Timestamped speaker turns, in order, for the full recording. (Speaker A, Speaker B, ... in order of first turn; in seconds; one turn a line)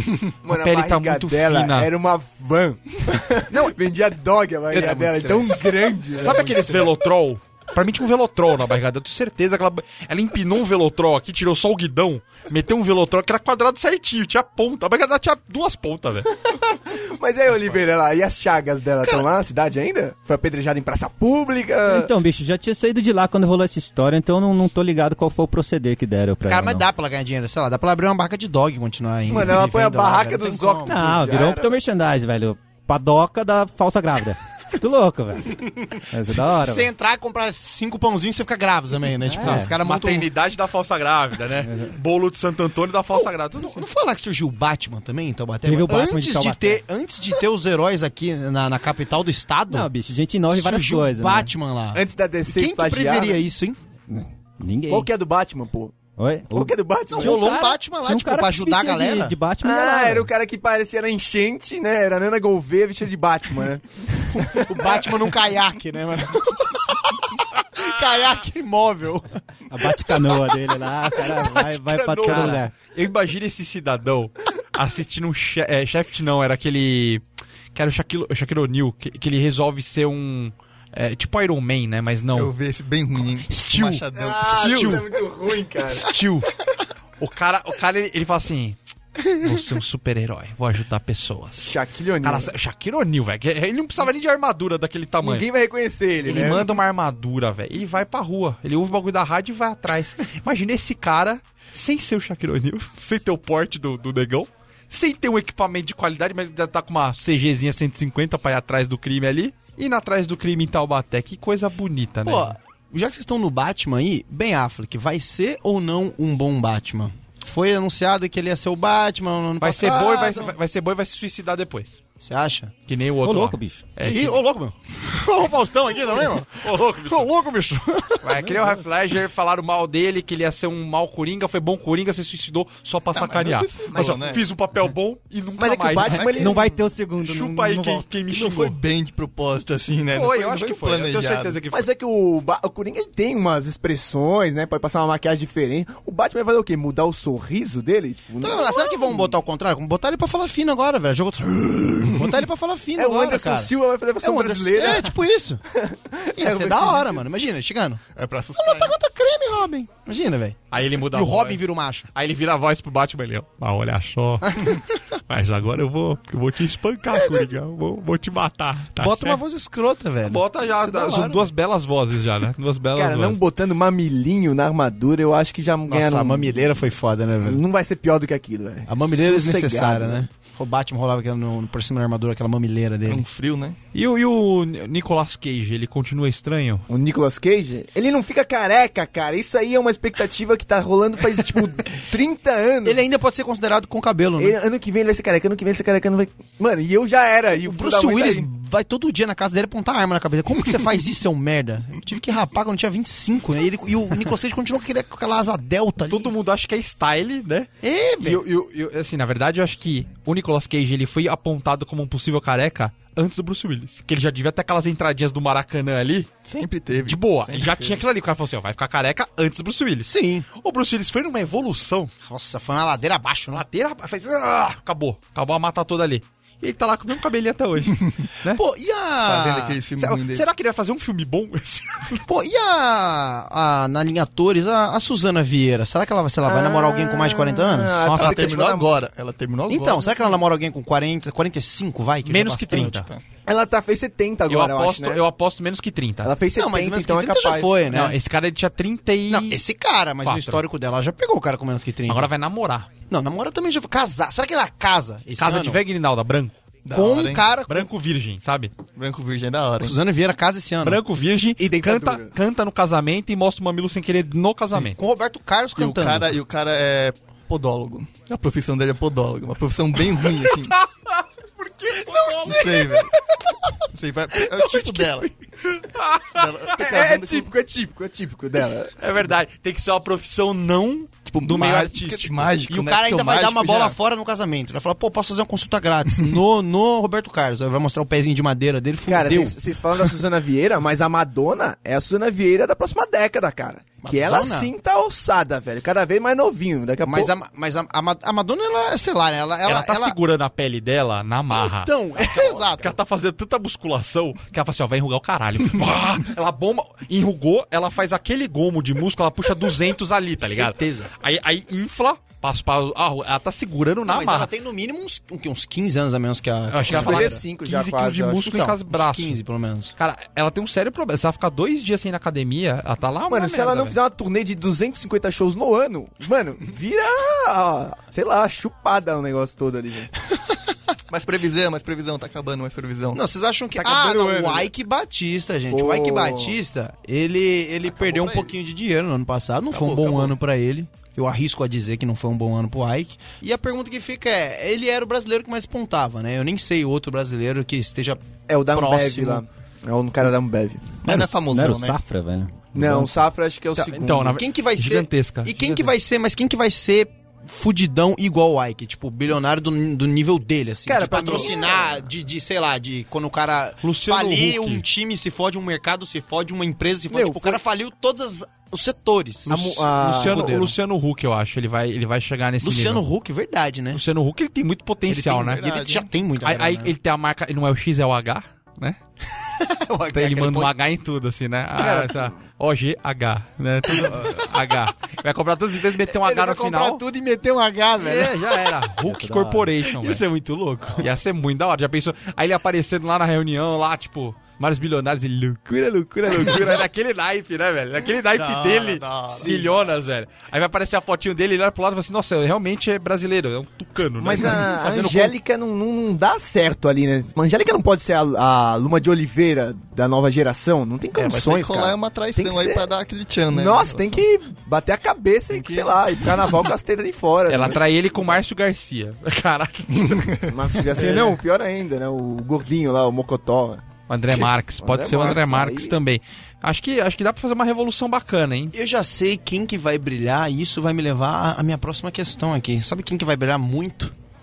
Speaker A: 0.4-6.9
Speaker B: 0.5-1.9
Speaker B: 4.7-16.3
Speaker A: 16.4-22.1
Speaker C: 21.9-26.9
Speaker D: 26.5-31.0
Speaker A: 29.3-31.7
Speaker C: 30.9-36.9
Speaker D: 35.9-40.3
Speaker C: 39.3-39.7
Speaker B: 39.4-43.8
Speaker C: 41.6-41.9
Speaker D: 43.1-49.9
Speaker C: 45.6-46.8
Speaker C: 49.7-51.5
Speaker D: 50.5-53.8
Speaker A: 51.9-53.4
Speaker C: 54.1-55.1
Speaker A: 54.9-56.0
Speaker C: 56.2-60.3
Speaker A: 56.5-57.5
Speaker D: 57.1-59.4
Speaker A: 59.6-65.0
Speaker D: 64.5-67.0
Speaker D: 67.6-69.4
Speaker C: 69.7-72.7
Speaker D: 71.2-72.6
Speaker B: 72.2-77.2
Speaker B: 77.7-82.5
Speaker E: 82.3-84.9
Speaker B: 83.5-85.1
Speaker A: 84.2-86.2
Speaker B: 85.9-86.5
Speaker B: 87.2-95.5
Speaker A: 91.6-92.5
Speaker A: 95.2-96.7
Speaker B: 96.2-112.6
Speaker D: 112.3-120.5
Speaker B: 119.6-122.0
Speaker D: 122.2-122.7
Speaker B: 122.9-124.4
Speaker C: 123.2-123.9
Speaker D: 124.0-128.5
Speaker B: 126.6-127.3
Speaker B: 128.2-136.4
Speaker E: 133.1-134.4
Speaker A: 135.6-136.8
Speaker E: 136.0-136.6
Speaker C: 136.2-138.1
Speaker B: 137.2-138.8
Speaker E: 138.3-141.6
Speaker B: 140.1-141.9
Speaker A: 141.7-149.3
Speaker D: 148.4-155.6
Speaker A: 153.0-155.2
Speaker A: 155.7-157.2
Speaker D: 156.4-158.0
Speaker E: 158.2-158.9
Speaker D: 158.6-162.1
Speaker B: 160.7-161.6
Speaker B: 162.1-169.4
Speaker D: 169.0-171.5
Speaker B: 170.2-173.4
Speaker A: 172.9-176.6
Speaker D: 175.9-177.6
Speaker A: 177.4-180.3
Speaker D: 178.9-183.2
Speaker E: 183.1-183.8
Speaker B: 183.9-186.9
Speaker A: 186.9-193.0
Speaker D: 192.8-194.6
Speaker A: 194.4-198.5
Speaker D: 197.6-206.3
Speaker B: 206.1-207.7
Speaker D: 207.8-208.4
Speaker B: 208.2-216.3
Speaker E: 216.4-218.0
Speaker B: 217.0-222.1
Speaker D: 220.1-220.5
Speaker D: 222.2-223.7
Speaker B: 223.5-228.6
Speaker D: 228.5-229.8
Speaker E: 229.2-230.4
Speaker B: 230.0-232.2
Speaker D: 232.3-238.3
Speaker A: 236.4-238.9
Speaker E: 238.1-240.4
Speaker D: 239.7-243.0
Speaker B: 242.2-243.1
Speaker E: 242.8-243.2
Speaker A: 243.4-245.2
Speaker B: 244.5-246.3
Speaker A: 246.2-247.8
Speaker D: 246.6-248.2
Speaker B: 247.9-249.6
Speaker D: 249.3-252.3
Speaker B: 250.2-250.6
Speaker B: 252.1-252.9
Speaker D: 253.1-255.8
Speaker B: 255.4-256.6
Speaker E: 256.9-257.5
Speaker D: 256.9-257.9
Speaker B: 257.7-258.7
Speaker E: 259.0-260.0
Speaker D: 259.8-261.0
Speaker B: 260.8-265.0
Speaker A: 261.6-262.3
Speaker D: 264.7-266.4
Speaker E: 265.8-270.8
Speaker B: 270.7-273.0
Speaker E: 272.4-273.1
Speaker E: 273.9-275.4
Speaker B: 275.7-276.8
Speaker E: 276.3-277.5
Speaker A: 276.8-279.0
Speaker B: 279.0-282.5
Speaker E: 281.3-284.0
Speaker D: 282.7-289.6
Speaker A: 289.1-297.4
Speaker D: 294.0-294.7
Speaker D: 297.0-300.2
Speaker B: 299.7-314.5
Speaker D: 301.5-303.0
Speaker D: 310.4-311.1
Speaker D: 314.1-317.4
Speaker B: 316.7-319.4
Speaker A: 316.8-318.5
Speaker D: 318.3-319.9
Speaker B: 320.0-324.0
Speaker A: 323.3-330.1
Speaker E: 331.1-333.2
Speaker D: 333.1-349.4
Speaker A: 333.8-334.7
Speaker A: 335.7-336.6
Speaker E: 337.9-338.5
Speaker E: 339.7-340.4
Speaker A: 348.5-351.0
Speaker E: 351.0-352.0
Speaker C: 351.1-353.2
Speaker A: 352.7-354.4
Speaker D: 353.8-370.8
Speaker B: 353.8-355.9
Speaker A: 360.9-362.1
Speaker B: 363.8-364.9
Speaker A: 367.1-367.6
Speaker A: 369.5-370.6
Speaker B: 369.5-373.0
Speaker D: 372.6-374.0
Speaker B: 373.9-375.7
Speaker D: 375.1-376.9
Speaker E: 375.4-376.1
Speaker B: 376.4-379.0
Speaker D: 379.5-380.7
Speaker B: 380.1-387.0
Speaker A: 381.8-382.3
Speaker D: 383.9-384.5
Speaker D: 386.1-388.4
Speaker B: 388.0-390.2
Speaker C: 389.0-389.7
Speaker D: 389.9-391.1
Speaker B: 391.0-404.7
Speaker A: 396.3-396.7
Speaker D: 398.4-399.0
Speaker E: 398.7-399.7
Speaker A: 404.2-412.9
Speaker D: 404.3-405.4
Speaker E: 411.1-414.3
Speaker A: 413.5-418.4
Speaker E: 415.5-416.6
Speaker B: 417.5-420.4
Speaker E: 420.0-420.5
Speaker A: 420.5-423.9
Speaker B: 420.9-421.4
Speaker B: 424.1-428.7
Speaker A: 424.4-425.9
Speaker D: 428.7-434.1